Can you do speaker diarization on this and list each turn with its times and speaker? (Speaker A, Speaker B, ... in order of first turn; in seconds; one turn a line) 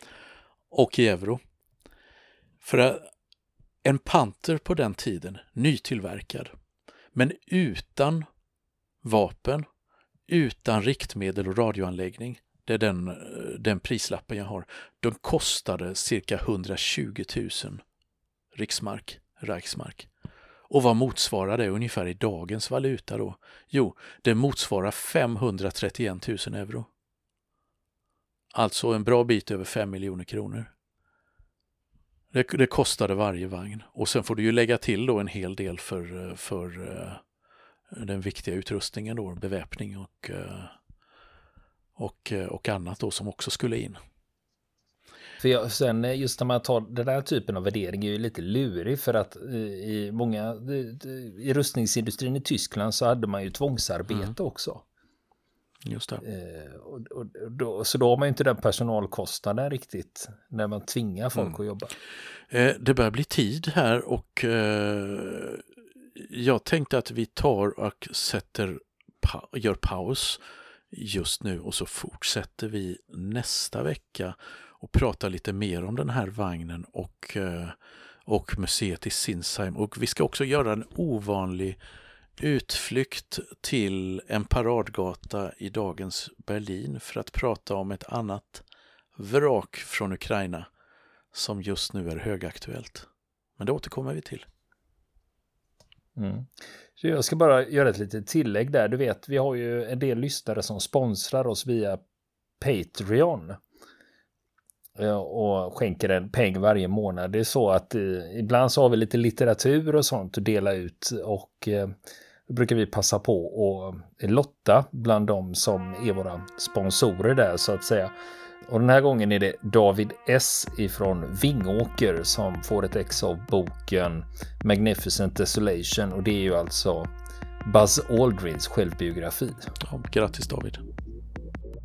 Speaker A: 0.7-1.4
Speaker A: 2.6-3.1
Speaker A: 3.8-6.5
Speaker A: 7.1-8.2
Speaker A: 9.0-9.6
Speaker A: 10.3-17.8
Speaker A: 18.5-20.1
Speaker A: 20.7-26.9
Speaker A: 28.5-30.7
Speaker A: 32.3-37.2
Speaker A: 37.9-40.7
Speaker A: 42.0-44.0
Speaker B: 45.4-54.9
Speaker A: 55.8-56.2
Speaker B: 56.2-61.9
Speaker A: 62.5-81.8
Speaker A: 82.4-88.6
Speaker A: 89.2-90.7
Speaker A: 91.3-93.1
Speaker A: 93.6-94.5
Speaker B: 96.2-102.0
Speaker B: 102.6-103.6
Speaker B: 105.0-111.9
Speaker B: 112.5-118.1
Speaker B: 118.7-127.1
Speaker B: 127.6-129.7
Speaker A: 129.8-130.8